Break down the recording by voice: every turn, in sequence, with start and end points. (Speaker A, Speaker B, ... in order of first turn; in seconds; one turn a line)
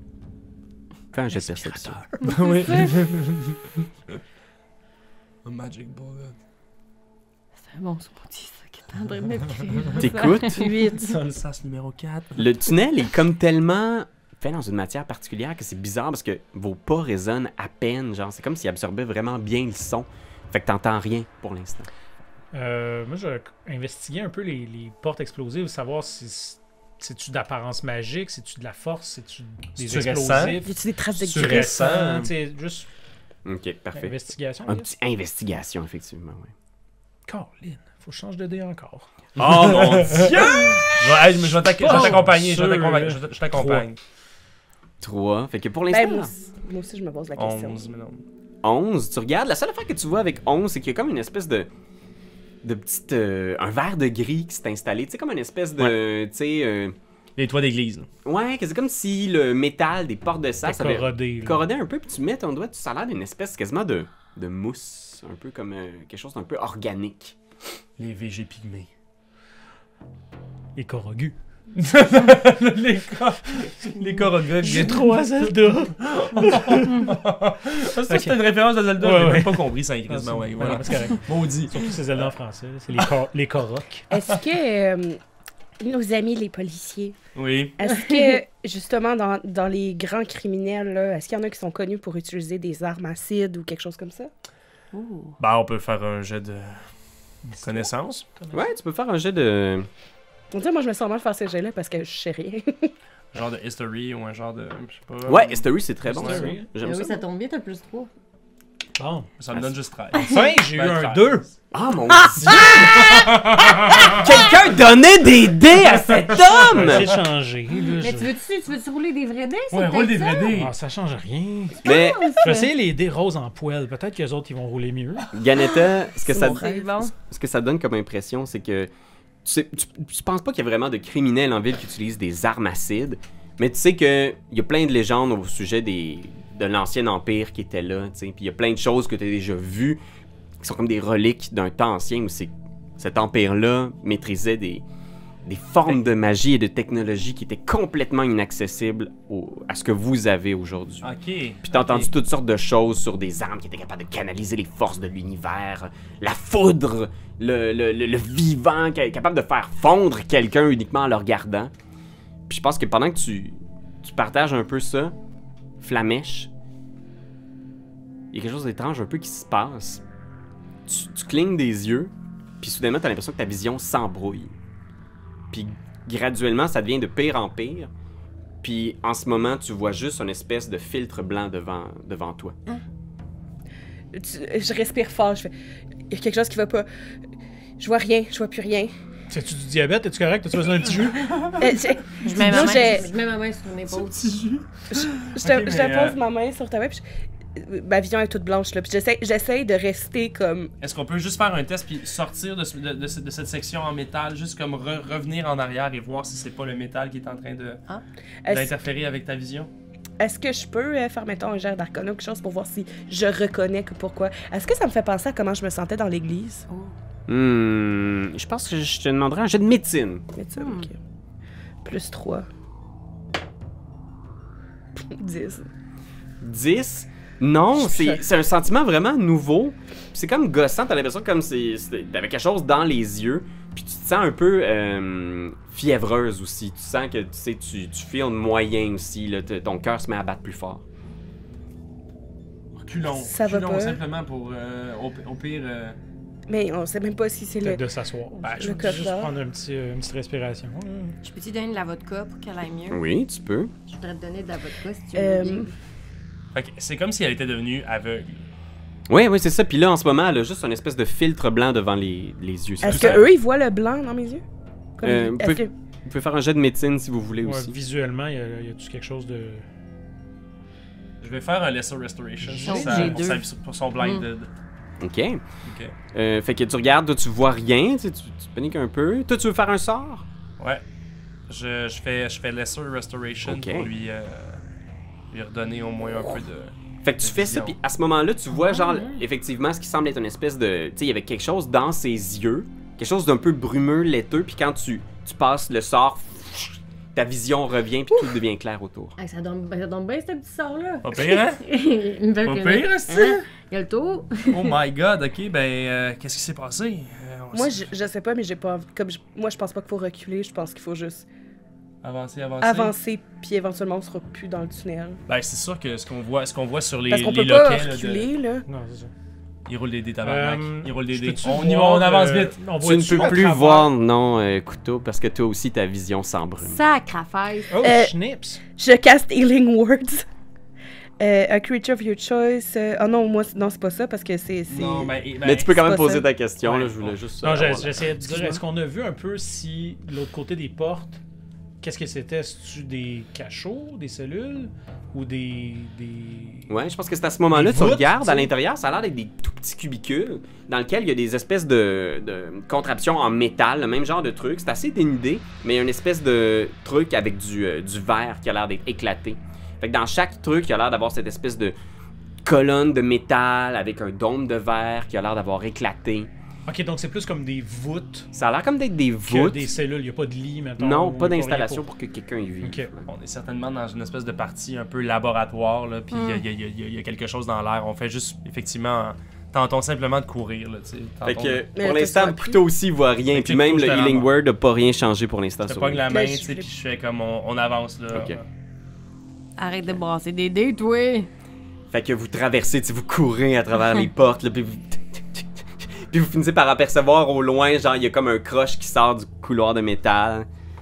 Speaker A: 1.1-2.0
Speaker B: 1.3-2.3
Speaker C: 2.2-4.2
Speaker D: 2.2-3.0
Speaker C: 5.4-6.3
Speaker D: 7.6-11.1
Speaker A: 9.9-10.7
Speaker C: 11.0-12.6
Speaker A: 12.4-21.9
Speaker B: 22.5-30.8
Speaker C: 29.8-30.6
Speaker E: 30.6-31.8
Speaker C: 31.2-32.3
Speaker B: 31.3-32.9
Speaker A: 33.5-36.5
Speaker B: 33.9-34.9
Speaker B: 37.2-39.1
Speaker A: 39.4-41.3
Speaker C: 39.4-44.0
Speaker B: 41.8-43.9
Speaker A: 45.0-46.3
Speaker E: 45.9-47.8
Speaker C: 47.4-48.2
Speaker A: 48.6-51.7
Speaker A: 52.6-57.0
Speaker C: 57.4-58.1
Speaker A: 58.2-67.4
Speaker B: 60.6-61.6
Speaker C: 68.0-68.9
Speaker B: 70.8-71.3
Speaker C: 71.8-82.0
Speaker B: 74.6-77.1
Speaker B: 78.1-78.4
Speaker B: 79.0-84.1
Speaker E: 84.1-85.2
Speaker E: 85.8-87.2
Speaker C: 87.3-87.8
Speaker E: 87.8-94.3
Speaker D: 87.9-88.4
Speaker D: 94.9-95.3
Speaker C: 95.4-96.8
Speaker B: 97.4-98.6
Speaker C: 97.6-98.2
Speaker A: 98.5-99.9
Speaker E: 100.5-102.9
Speaker C: 103.3-106.5
Speaker A: 105.2-107.2
Speaker B: 106.0-106.7
Speaker D: 106.8-108.1
Speaker B: 109.0-109.3
Speaker C: 109.4-111.5
Speaker B: 110.2-111.5
Speaker A: 111.7-117.1
Speaker D: 112.5-112.8
Speaker C: 112.5-114.3
Speaker C: 115.9-117.2
Speaker B: 116.6-118.3
Speaker D: 118.0-120.5
Speaker C: 119.7-120.7
Speaker B: 120.5-125.3
Speaker A: 121.8-122.3
Speaker D: 121.8-122.7
Speaker A: 125.3-128.9
Speaker E: 126.3-126.9
Speaker D: 126.5-127.1
Speaker A: 129.4-140.0
Speaker A: 140.6-144.8
Speaker A: 145.4-151.1
Speaker C: 151.0-152.1
Speaker A: 151.6-161.7
Speaker A: 162.5-165.1
Speaker A: 165.8-166.5
Speaker A: 168.3-170.0
Speaker A: 170.9-174.5
Speaker A: 175.5-177.9
Speaker A: 178.6-182.5
Speaker E: 184.1-185.5
Speaker E: 186.1-186.9
Speaker E: 187.8-188.9
Speaker B: 189.3-191.6
Speaker C: 191.2-191.6
Speaker E: 191.6-193.1
Speaker D: 192.2-194.2
Speaker C: 193.9-196.2
Speaker E: 194.9-197.0
Speaker E: 197.6-200.7
Speaker C: 200.8-207.8
Speaker E: 208.4-208.8
Speaker C: 208.5-209.7
Speaker E: 210.2-216.7
Speaker D: 216.7-216.9
Speaker A: 217.3-220.2
Speaker E: 220.3-220.9
Speaker D: 220.6-220.9
Speaker E: 221.8-222.4
Speaker E: 225.0-225.7
Speaker A: 226.4-240.8
Speaker E: 227.8-228.2
Speaker C: 242.8-246.0
Speaker E: 243.1-244.0
Speaker E: 246.5-247.8
Speaker B: 247.6-251.2
Speaker C: 248.4-249.0
Speaker E: 248.5-249.3
Speaker D: 251.2-253.0
Speaker A: 252.9-253.7
Speaker D: 253.9-255.7
Speaker E: 255.1-255.7
Speaker C: 256.5-258.4
Speaker A: 259.1-263.3
Speaker E: 262.8-264.4
Speaker C: 262.9-263.2
Speaker E: 265.0-265.7
Speaker A: 265.0-267.8
Speaker B: 267.4-269.6
Speaker C: 271.2-274.5
Speaker B: 272.4-273.4
Speaker D: 272.6-273.4
Speaker D: 274.0-274.2
Speaker A: 275.0-275.4
Speaker C: 275.6-275.9
Speaker A: 276.1-280.2
Speaker C: 281.5-284.6
Speaker A: 283.4-283.9
Speaker C: 285.3-287.8
Speaker A: 287.0-299.1
Speaker D: 288.5-289.2
Speaker D: 299.2-304.7
Speaker C: 301.0-301.6
Speaker C: 302.4-303.5
Speaker C: 304.5-307.9
Speaker E: 307.5-311.2
Speaker C: 312.0-312.9
Speaker E: 312.6-315.2
Speaker C: 315.3-318.3
Speaker E: 317.1-318.6
Speaker B: 318.7-319.1
Speaker C: 319.6-322.6
Speaker B: 320.2-323.9
Speaker A: 322.8-326.8
Speaker D: 326.6-327.8
Speaker B: 327.7-328.6
Speaker E: 327.8-328.1
Speaker E: 328.8-330.2
Speaker E: 331.2-336.2
Speaker C: 334.7-335.8
Speaker A: 335.4-338.4
Speaker C: 336.6-337.0
Speaker B: 337.4-341.2
Speaker B: 341.8-346.7
Speaker A: 346.7-361.8
Speaker B: 347.5-348.5
Speaker A: 362.4-366.3
Speaker B: 366.6-368.3
Speaker A: 368.3-369.7
Speaker B: 369.2-371.8
Speaker A: 370.8-373.1
Speaker B: 372.6-372.9
Speaker C: 373.1-381.6
Speaker D: 376.1-376.4
Speaker A: 381.2-386.0
Speaker E: 381.8-382.6
Speaker C: 383.3-384.3
Speaker C: 385.6-388.4
Speaker E: 386.1-386.7
Speaker A: 388.1-388.4
Speaker D: 389.6-391.3
Speaker A: 391.9-400.5